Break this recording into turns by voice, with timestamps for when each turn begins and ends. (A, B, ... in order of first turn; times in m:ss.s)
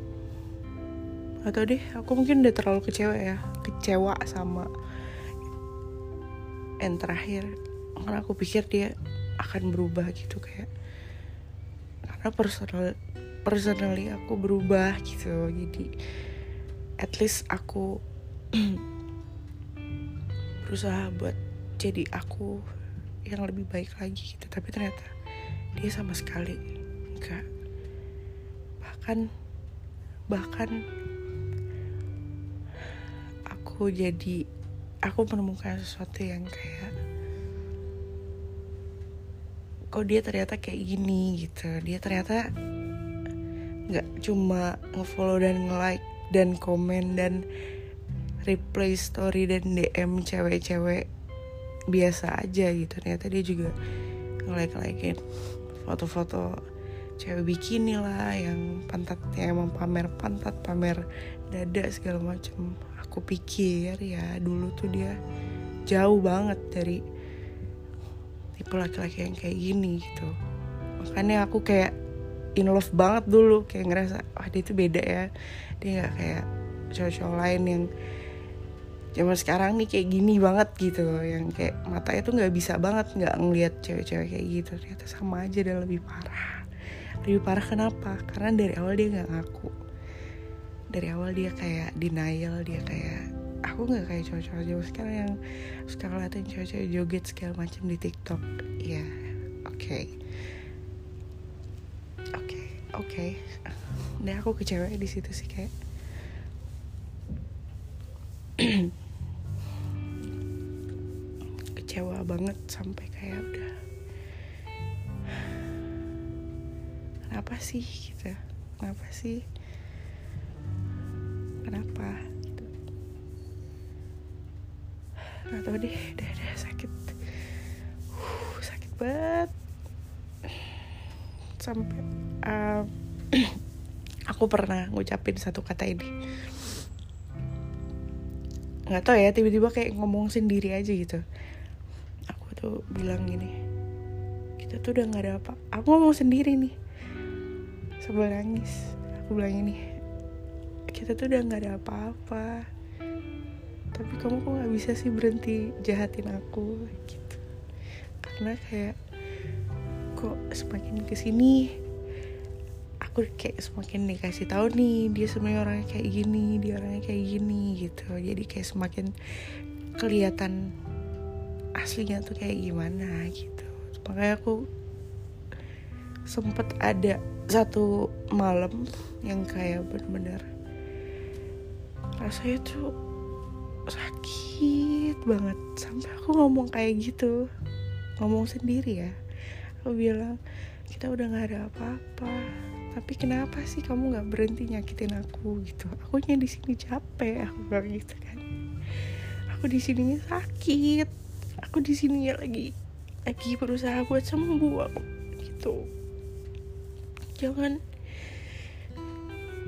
0:01.4-0:04.7 A
0:06.8-0:10.7 A
0:12.1-0:15.9 A
0:17.0-0:17.9 A
0:18.5-0:18.8 A
0:20.6-0:22.6 A
0:23.2-0:25.1 A
0:25.8-0:26.6 A
0:27.1-0:27.4 A
0:28.8-0:29.3 A
0:30.3-0:30.8 A
0:33.5-0:34.4 A
0:35.0-0:36.9 A
0:39.9-0:42.5 A
0:43.9-0:47.4 A
0:48.4-0:51.0 A
0:51.9-0:53.8 A
0:54.4-0:55.2 A
0:55.8-0:56.6 A
0:57.2-1:05.2 A
1:05.9-1:07.0 A
1:08.6-1:10.3 A
1:11.0-1:11.9 A
1:12.6-1:15.3 A
1:15.8-1:17.9 A
1:19.2-1:26.6 A
1:27.2-1:29.7 A
1:30.9-1:35.4 A
1:35.9-1:39.1 A
1:39.6-1:40.1 A
1:42.4-1:45.7 A
1:48.6-1:48.9 A
1:51.7-1:53.7 A
1:57.3-1:59.4 A
2:01.6-2:02.7 A
2:05.5-2:07.3 A
2:08.1-2:09.5 A
2:10.5-2:10.9 A
2:11.6-2:13.6 A
2:14.3-2:16.1 A
2:18.9-2:21.2 A
2:22.3-2:23.5 A
2:24.6-2:26.7 A
2:28.0-2:29.8 A
2:30.9-2:32.6 A
2:33.9-2:37.4 A
2:38.2-2:39.0 A
2:40.2-2:41.7 A
2:43.0-2:49.1 A
2:50.0-2:50.6 A
2:51.8-2:54.6 A
2:56.3-3:00.4 A
3:02.2-3:02.9 A
3:03.9-3:07.4 A
3:08.2-3:09.1 A
3:09.8-3:18.4 A
3:19.0-3:21.1 A
3:21.6-3:22.7 A
3:23.3-3:25.9 A
3:27.4-3:28.4 A